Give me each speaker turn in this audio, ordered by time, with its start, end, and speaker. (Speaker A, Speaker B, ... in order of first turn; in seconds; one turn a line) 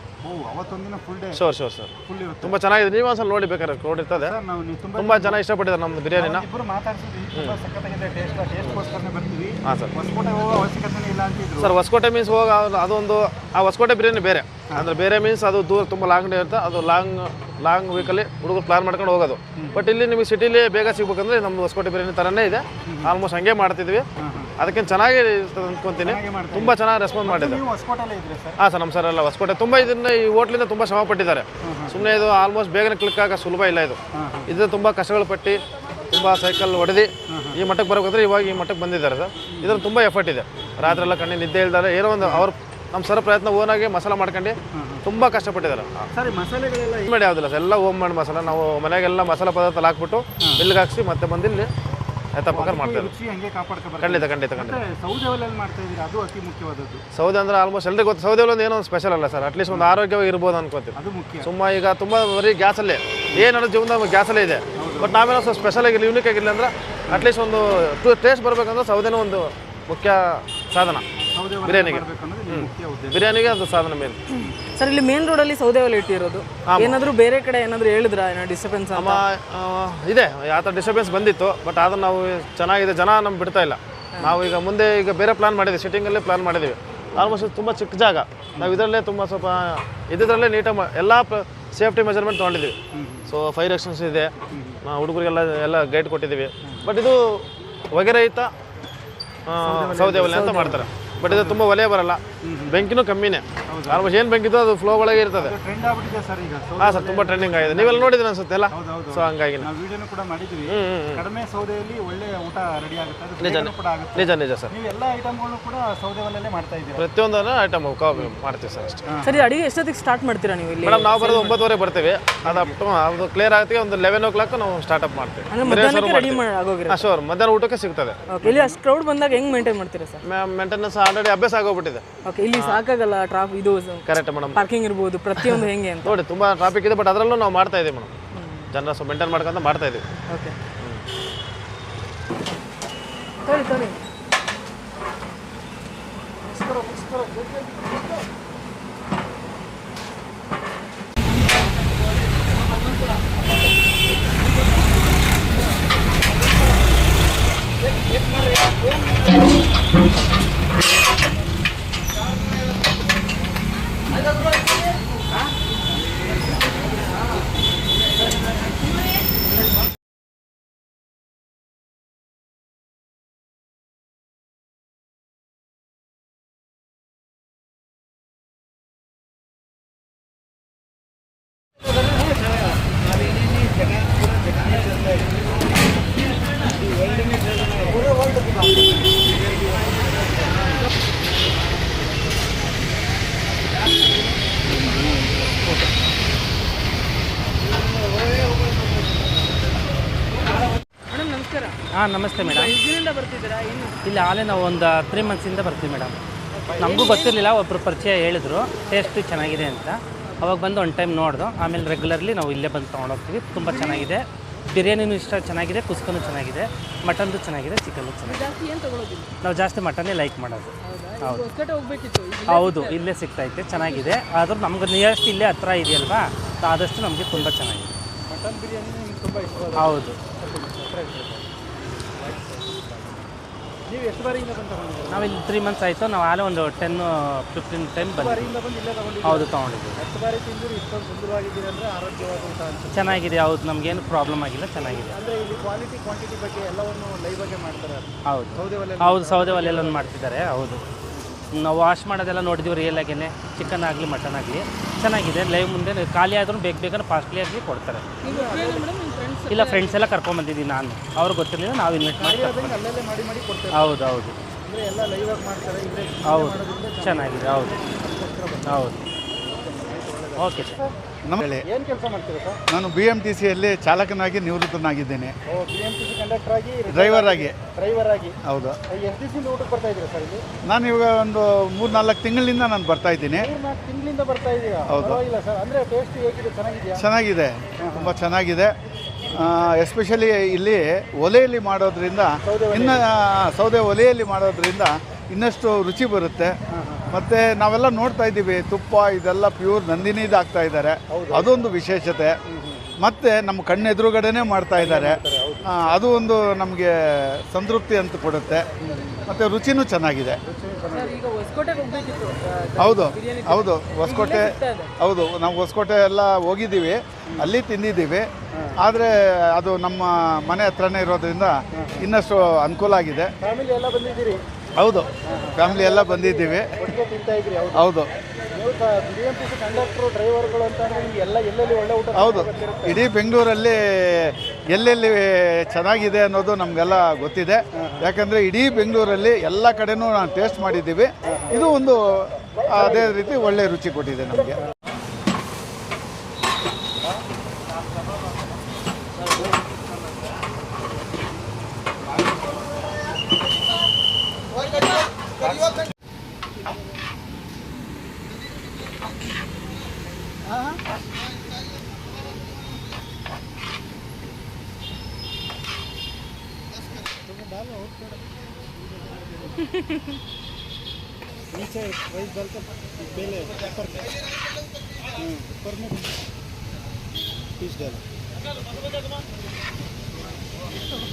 Speaker A: 0.2-1.4
Speaker B: 1.3-4.3
Speaker A: 2.1-2.6
Speaker A: 4.2-5.4
Speaker B: 5.0-6.5
Speaker A: 6.2-11.7
Speaker B: 9.7-9.9
Speaker B: 11.6-24.1
Speaker A: 19.6-19.9
Speaker A: 22.9-23.2
Speaker A: 24.2-24.5
Speaker B: 24.6-27.6
Speaker A: 26.0-28.6
Speaker B: 28.6-45.9
Speaker A: 31.6-32.0
Speaker A: 34.1-34.5
Speaker A: 37.3-37.6
Speaker A: 39.5-39.9
Speaker A: 40.8-41.1
Speaker A: 42.2-42.5
Speaker A: 44.7-45.0
Speaker A: 46.1-47.1
Speaker B: 47.1-51.7
Speaker A: 50.4-50.6
Speaker B: 52.3-53.1
Speaker A: 52.5-57.0
Speaker B: 54.0-54.8
Speaker B: 57.1-71.0
Speaker A: 59.7-60.0
Speaker A: 61.0-61.5
Speaker A: 64.8-65.2
Speaker A: 71.3-73.3
Speaker B: 71.6-74.2
Speaker C: 74.3-79.2
Speaker B: 76.7-77.0
Speaker B: 78.9-92.8
Speaker A: 88.6-88.8
Speaker A: 92.9-93.3
Speaker B: 93.3-98.5
Speaker A: 94.5-94.8
Speaker B: 99.5-105.6
Speaker A: 99.6-101.6
Speaker A: 102.4-102.8
Speaker A: 103.7-104.1
Speaker A: 105.3-108.2
Speaker B: 106.8-109.7
Speaker A: 108.7-117.0
Speaker B: 110.7-111.2
Speaker B: 113.4-114.7
Speaker B: 117.0-119.0
Speaker A: 119.1-119.5
Speaker C: 119.2-121.6
Speaker B: 120.8-128.2
Speaker A: 122.4-122.8
Speaker C: 125.5-127.0
Speaker C: 128.3-130.2
Speaker A: 128.4-128.8
Speaker B: 130.2-132.8
Speaker C: 132.2-136.2
Speaker B: 134.1-134.6
Speaker B: 136.1-138.2
Speaker C: 138.3-138.7
Speaker B: 138.7-140.0
Speaker C: 140.3-140.6
Speaker C: 143.4-144.0
Speaker A: 146.5-148.0
Speaker A: 187.8-188.6
Speaker D: 194.8-195.7
Speaker C: 201.1-201.8
Speaker D: 201.9-202.8
Speaker C: 202.4-204.0
Speaker D: 204.0-206.2
Speaker C: 206.6-207.3
Speaker D: 206.8-218.5
Speaker C: 213.6-214.1
Speaker C: 218.2-219.3
Speaker D: 219.4-221.4
Speaker C: 220.8-223.0
Speaker D: 222.5-227.9
Speaker C: 223.7-224.1
Speaker A: 228.3-231.4
Speaker D: 229.8-230.2
Speaker A: 232.1-233.2
Speaker A: 233.9-235.4
Speaker D: 235.1-238.5
Speaker A: 238.1-243.2
Speaker D: 239.2-240.0
Speaker D: 242.9-245.2
Speaker A: 245.1-250.2
Speaker D: 248.3-250.8
Speaker D: 251.5-258.2
Speaker C: 258.2-260.1
Speaker A: 258.2-258.9
Speaker D: 259.5-262.8
Speaker A: 262.2-263.9
Speaker D: 263.7-264.4
Speaker A: 264.6-270.9
Speaker D: 266.2-267.8
Speaker D: 268.6-269.1
Speaker D: 270.4-270.8
Speaker E: 271.3-271.6
Speaker A: 271.7-272.6
Speaker E: 272.7-275.3
Speaker A: 275.5-278.4
Speaker E: 276.9-277.6
Speaker E: 278.5-278.8
Speaker A: 278.9-280.4
Speaker E: 280.7-283.5
Speaker A: 283.4-287.1
Speaker E: 284.9-285.2
Speaker E: 287.0-288.7
Speaker A: 287.8-288.1
Speaker E: 289.3-296.5
Speaker A: 292.4-293.0
Speaker A: 296.7-297.1
Speaker E: 297.1-302.4
Speaker A: 301.1-301.5
Speaker A: 302.5-303.0
Speaker E: 303.0-305.2
Speaker A: 304.8-305.7
Speaker E: 305.8-308.7
Speaker A: 308.8-309.2
Speaker E: 309.3-310.4
Speaker A: 310.4-311.2
Speaker C: 310.9-314.9
Speaker E: 312.8-318.3
Speaker E: 318.8-323.3
Speaker A: 321.8-322.1
Speaker A: 323.4-324.4
Speaker E: 324.8-326.8
Speaker A: 325.3-327.9
Speaker E: 327.8-328.1
Speaker A: 328.5-333.0
Speaker E: 332.1-344.6
Speaker A: 337.8-338.1
Speaker A: 341.3-341.7
Speaker A: 360.5-360.8
Speaker A: 367.1-368.3
Speaker C: 369.7-370.1
Speaker A: 371.5-374.1
Speaker A: 375.2-376.1
Speaker A: 377.6-378.0